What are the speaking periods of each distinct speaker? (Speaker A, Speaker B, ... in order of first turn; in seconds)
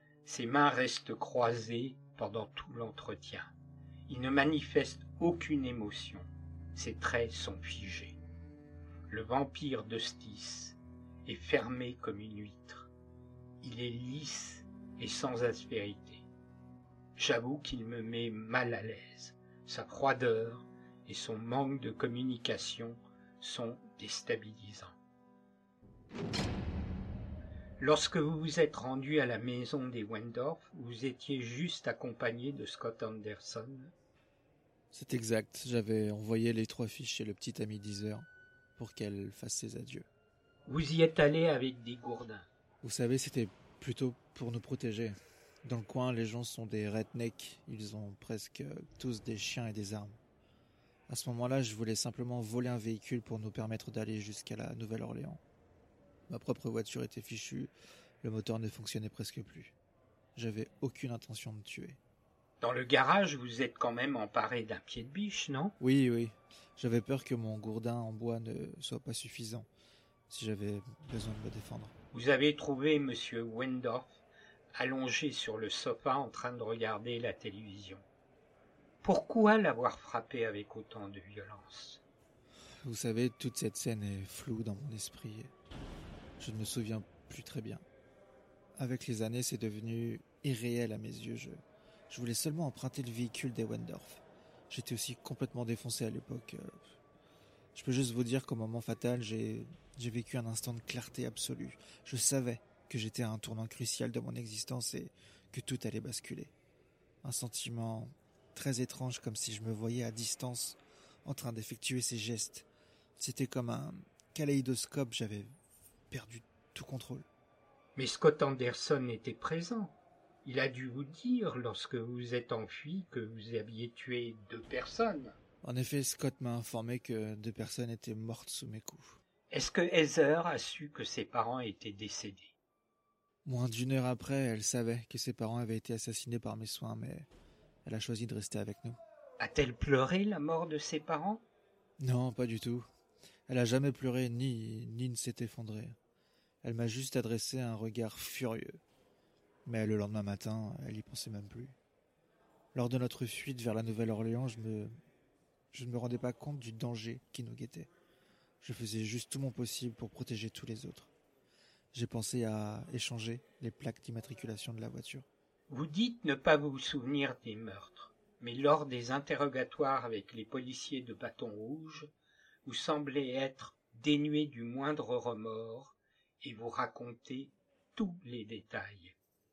Speaker A: 0.2-3.5, 4.1-8.2, 9.1-12.9, 13.6-16.2, 17.2-24.9, 27.8-33.9, 40.7-42.5, 62.6-65.8, 72.1-74.2, 74.8-78.0, 79.0-82.0, 118.0-125.3, 129.5-132.5, 139.4-141.4, 165.7-172.1, 172.7-179.2
Speaker B: 34.9-40.1, 42.8-50.2, 51.1-55.4, 56.3-57.7, 58.2-59.8, 60.4-62.0, 65.8-69.7, 70.3-71.9, 82.8-85.5, 86.4-87.8, 88.8-96.8, 97.8-106.5, 107.2-112.7, 113.2-115.5, 116.1-117.3, 125.6-129.2, 133.4-137.3, 137.8-139.0, 142.0-142.9, 143.5-146.0, 146.6-148.8, 149.7-151.8, 152.7-154.9, 155.7-157.9, 158.6-161.1, 161.9-165.3